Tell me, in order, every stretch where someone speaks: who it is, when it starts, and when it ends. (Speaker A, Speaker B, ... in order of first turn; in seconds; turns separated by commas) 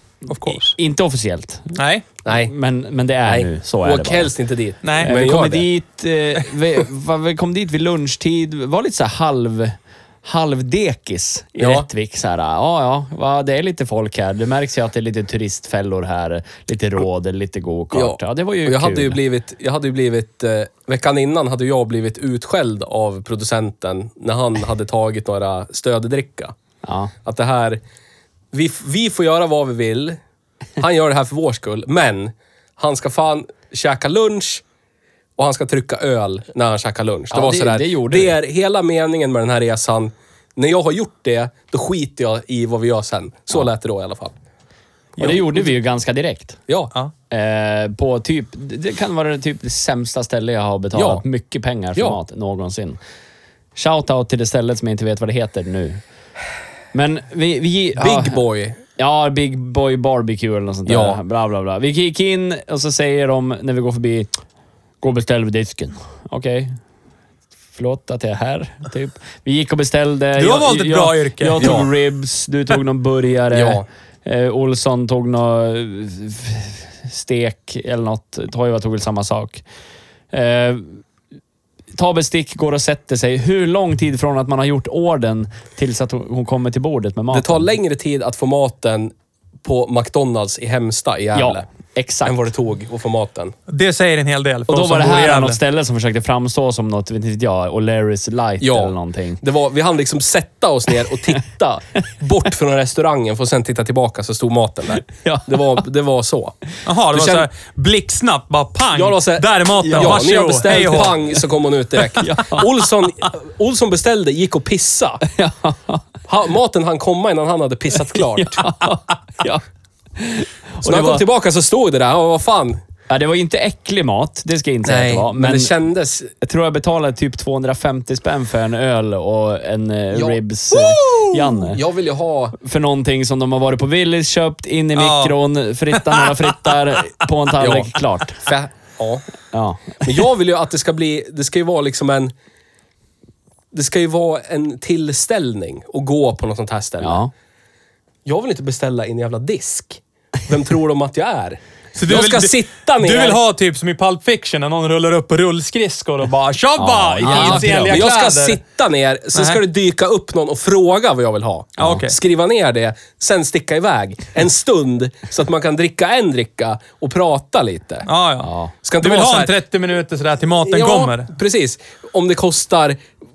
Speaker A: 0.3-0.7, Speaker B: 0.4-1.8, Speaker A: 1.8-2.1, Speaker C: 2.2-2.5, Speaker B: 2.3-4.3, Speaker C: 3.3-5.7, Speaker A: 4.8-5.1, Speaker B: 5.0-19.2, Speaker C: 11.6-11.9, Speaker C: 17.9-26.5, Speaker B: 26.8-27.1, Speaker C: 27.2-27.8, Speaker C: 28.5-30.2, Speaker C: 30.8-34.6, Speaker C: 35.4-44.4, Speaker B: 37.3-38.4, Speaker C: 45.2-45.8, Speaker B: 45.2-46.6, Speaker B: 47.3-53.0, Speaker C: 51.0-51.2, Speaker B: 53.8-56.0, Speaker B: 56.9-58.4, Speaker C: 58.0-58.8, Speaker B: 59.0-64.3, Speaker C: 60.9-61.2, Speaker B: 65.0-66.8, Speaker B: 67.8-79.6, Speaker A: 70.3-71.7, Speaker C: 71.6-71.9, Speaker C: 73.5-73.8, Speaker B: 80.3-81.0, Speaker B: 82.0-87.7, Speaker C: 87.3-89.1, Speaker C: 89.6-91.7, Speaker B: 91.3-92.4, Speaker C: 92.2-93.5, Speaker A: 93.7-95.6, Speaker B: 94.7-99.4, Speaker C: 98.6-106.5, Speaker B: 105.0-105.8, Speaker A: 106.9-111.2, Speaker C: 107.1-107.5, Speaker C: 109.0-115.3, Speaker B: 109.8-110.3, Speaker B: 112.2-112.7, Speaker B: 115.3-116.0, Speaker C: 116.3-118.7, Speaker B: 118.1-119.6, Speaker B: 120.2-121.2, Speaker C: 120.8-122.8, Speaker B: 123.1-125.7, Speaker C: 124.9-126.3, Speaker B: 126.4-131.8, Speaker C: 130.1-130.4, Speaker A: 130.9-131.3, Speaker C: 131.7-132.6, Speaker B: 132.6-138.5, Speaker A: 135.0-135.4, Speaker A: 135.9-136.5, Speaker C: 137.6-139.2, Speaker B: 139.5-140.1, Speaker C: 140.0-142.3, Speaker C: 143.7-147.3, Speaker B: 147.0-147.3, Speaker C: 148.3-153.4, Speaker A: 152.0-158.6, Speaker B: 156.8-158.1, Speaker C: 157.2-168.1, Speaker A: 159.3-159.6, Speaker B: 161.8-162.0, Speaker A: 161.8-162.2, Speaker A: 168.1-171.3, Speaker B: 168.4-168.7, Speaker C: 168.8-169.6, Speaker C: 170.7-173.0